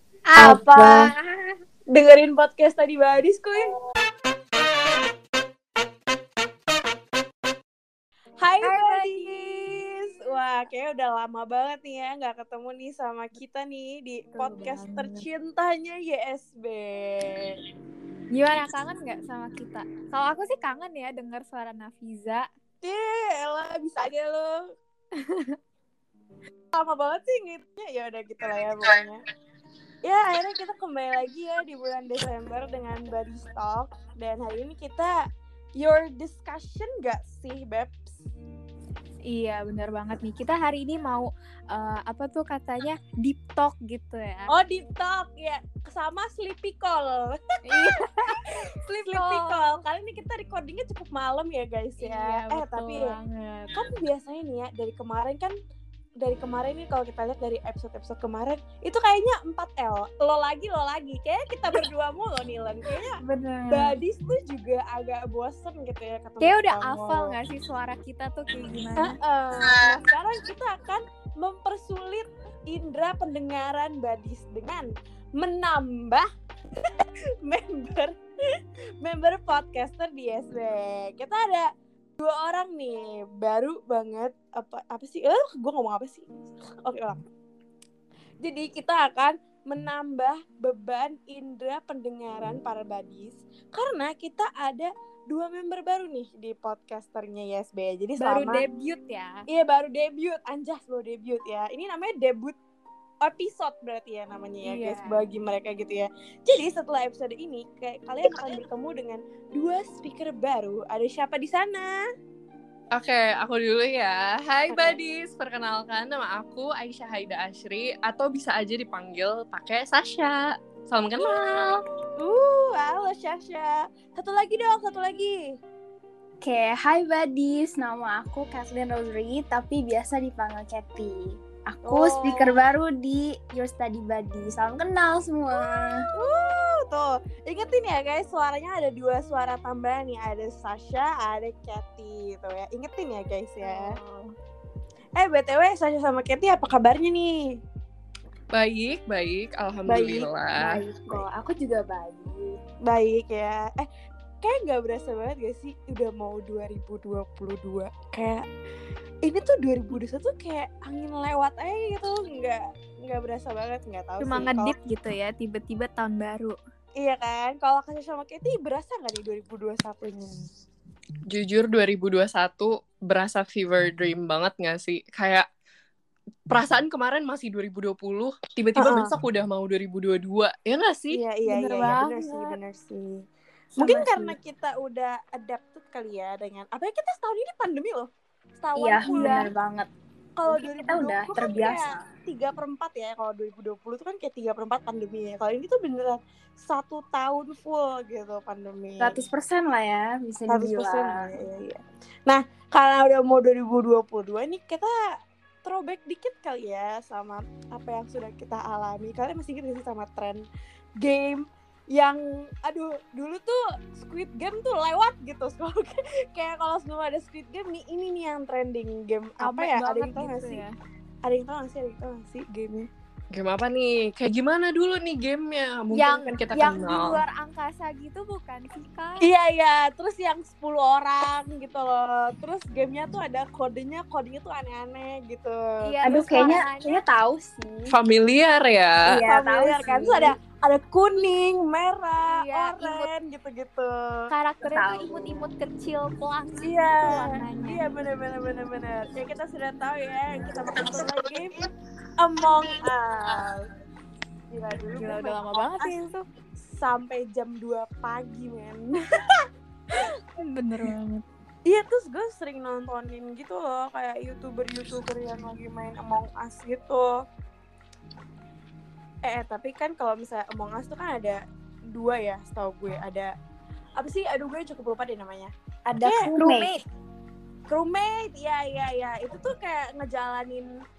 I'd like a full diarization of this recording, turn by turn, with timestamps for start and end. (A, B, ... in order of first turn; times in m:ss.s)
0:00.3-0:01.1 A
0:00.4-0:01.0 B
0:00.4-0:01.0 C
0:01.9-0:03.7 B
0:08.4-0:17.6 B
0:08.6-0:09.2 A
0:14.3-0:15.2 A
0:18.3-0:22.4 A
0:22.8-0:24.7 B
0:25.1-0:25.6 A
0:26.7-0:29.2 B
0:30.0-0:35.2 B
0:35.8-0:38.2 B
0:39.3-0:44.5 A
0:44.5-0:53.1 B
0:47.6-0:49.6 A
0:52.0-0:53.8 A
0:53.7-0:55.6 B
0:56.2-1:07.4 B
1:03.2-1:03.9 A
1:06.4-1:09.2 A
1:09.0-1:16.3 B
1:16.9-1:18.1 B
1:19.0-1:26.3 B
1:26.8-1:27.2 B
1:28.4-1:38.6 B
1:38.2-1:39.4 A
1:39.5-1:42.6 B
1:43.2-1:52.0 B
1:44.6-1:45.2 A
1:53.0-2:01.8 D
1:54.7-1:55.0 B
2:02.2-2:05.4 B
2:06.4-2:16.1 C
2:11.8-2:12.6 B
2:16.1-2:24.0 B
2:23.6-2:24.2 A
2:25.2-2:27.5 B
2:28.5-2:30.8 D
2:29.9-2:32.6 C
2:32.8-2:33.9 B
2:34.4-2:38.4 B
2:39.2-2:44.7 B
2:44.2-2:46.6 A
2:47.0-2:50.4 B
2:51.3-2:55.5 D
2:56.5-3:01.2 D
2:58.8-2:59.1 B
3:01.1-3:03.2 B
3:01.5-3:02.6 A
3:03.8-3:08.1 B
3:03.9-3:04.2 A
3:08.6-3:09.5 B
3:08.8-3:09.9 C
3:09.1-3:09.5 A
3:10.4-3:19.2 B
3:10.4-3:12.0 C
3:19.0-3:21.2 C
3:20.5-3:25.0 B
3:25.6-3:30.4 B
3:31.0-3:40.6 B
3:39.4-3:40.7 A
3:41.2-3:42.9 B
3:43.3-3:47.2 D
3:45.9-3:49.3 A
3:49.2-3:56.6 B
3:55.8-3:57.0 A
3:56.0-3:57.9 C
3:57.9-3:59.2 D
3:59.1-4:00.4 C
3:59.2-4:04.2 B
4:02.2-4:03.1 A
4:04.3-4:07.9 A
4:04.6-4:05.5 C
4:06.6-4:11.6 B
4:12.2-4:13.7 B
4:14.5-4:16.1 B
4:14.9-4:16.2 A
4:16.6-4:19.3 B
4:19.9-4:21.2 A
4:21.7-4:27.1 B
4:29.2-4:31.4 B
4:31.9-4:33.3 B
4:34.0-4:36.6 B
4:35.9-4:36.7 C
4:37.7-4:40.7 B